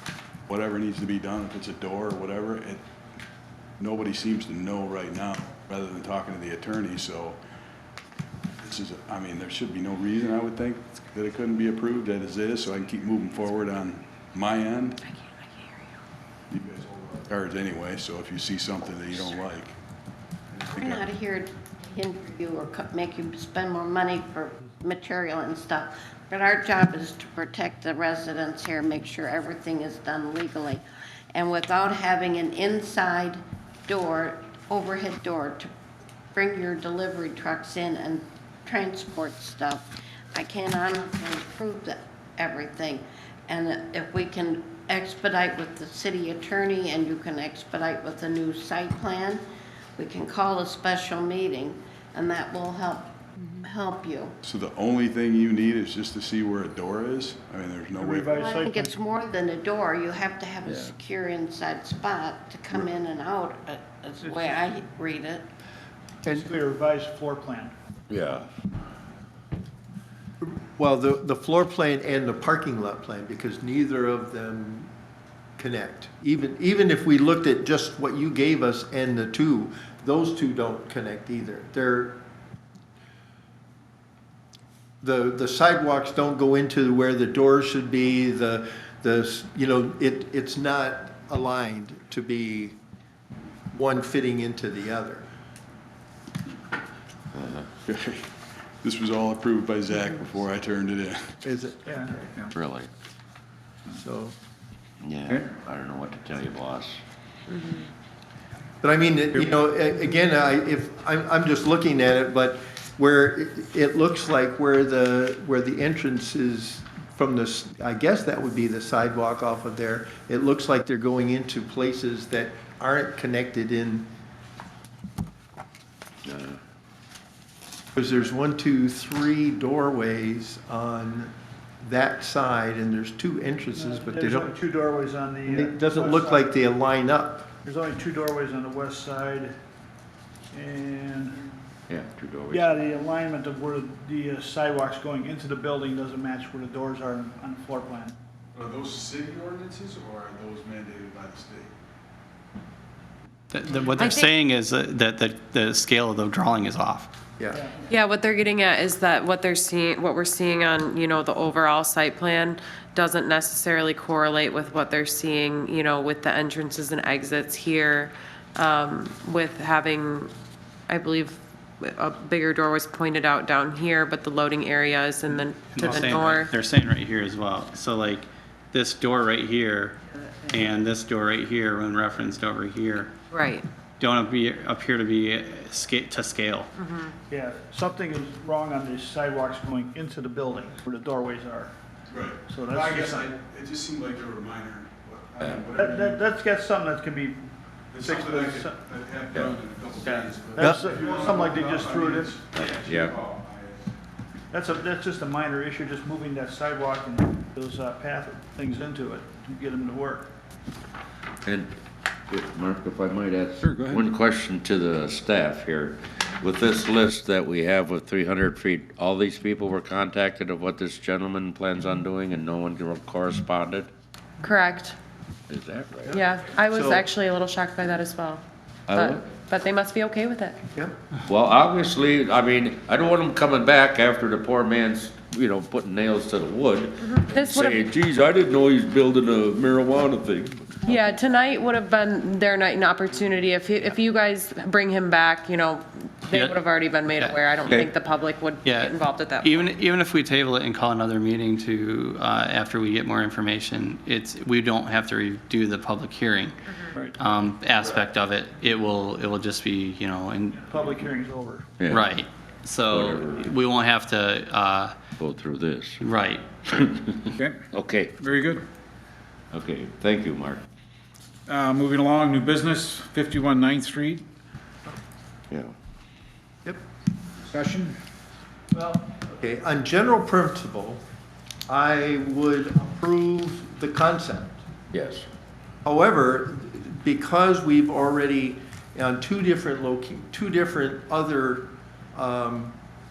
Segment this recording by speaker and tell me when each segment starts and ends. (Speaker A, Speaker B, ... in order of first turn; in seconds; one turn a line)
Speaker A: 0.5-2.8
Speaker A: 3.8-7.4
Speaker A: 8.6-15.0
Speaker B: 15.1-15.8
Speaker A: 16.5-19.8
Speaker A: 20.5-21.0
Speaker C: 20.7-35.7
Speaker C: 36.3-49.4
Speaker C: 50.0-54.4
Speaker A: 54.4-58.3
Speaker D: 58.0-58.9
Speaker C: 58.3-65.5
Speaker D: 64.2-64.5
Speaker D: 66.3-67.7
Speaker E: 68.1-68.5
Speaker F: 70.4-74.9
Speaker F: 75.6-82.2
Speaker F: 85.0-92.8
Speaker F: 93.7-95.2
Speaker E: 97.3-97.7
Speaker A: 97.8-98.3
Speaker A: 98.8-101.4
Speaker F: 101.4-102.4
Speaker D: 101.8-102.1
Speaker E: 102.5-102.9
Speaker F: 103.9-104.3
Speaker E: 105.0-107.0
Speaker B: 107.5-107.9
Speaker F: 108.8-124.1
Speaker E: 126.2-126.6
Speaker F: 128.0-134.6
Speaker D: 133.7-136.5
Speaker F: 135.5-137.5
Speaker D: 137.7-139.6
Speaker D: 140.5-141.5
Speaker E: 141.9-142.9
Speaker D: 142.5-148.2
Speaker A: 148.5-151.7
Speaker G: 153.5-157.1
Speaker B: 154.0-154.3
Speaker D: 157.5-157.8
Speaker B: 157.9-170.3
Speaker B: 170.9-176.5
Speaker G: 175.3-183.1
Speaker B: 183.3-183.7
Speaker G: 184.0-186.7
Speaker B: 186.8-187.1
Speaker D: 187.3-191.7
Speaker A: 192.1-196.2
Speaker D: 192.5-193.3
Speaker D: 195.6-198.8
Speaker A: 197.9-203.8
Speaker D: 200.0-202.4
Speaker F: 200.6-200.9
Speaker E: 202.5-203.2
Speaker D: 204.5-210.3
Speaker E: 211.4-211.7
Speaker E: 212.3-223.9
Speaker H: 213.7-214.0
Speaker B: 224.4-225.0
Speaker E: 225.5-226.2
Speaker F: 226.1-227.0
Speaker B: 226.1-230.6
Speaker E: 228.9-229.3
Speaker F: 230.8-231.0
Speaker E: 231.2-241.1
Speaker B: 237.0-237.8
Speaker B: 240.8-249.7
Speaker G: 246.3-247.4
Speaker G: 248.6-256.6
Speaker G: 257.2-260.8
Speaker D: 260.6-261.7
Speaker E: 261.8-262.1
Speaker G: 261.9-265.0
Speaker E: 262.9-263.5
Speaker E: 265.2-266.0
Speaker G: 266.0-266.4
Speaker E: 266.7-268.1
Speaker H: 268.2-268.6
Speaker E: 269.5-270.6
Speaker H: 271.5-274.2
Speaker H: 277.5-277.9
Speaker F: 278.9-281.0
Speaker F: 281.7-284.6
Speaker E: 284.9-285.2
Speaker F: 285.8-292.8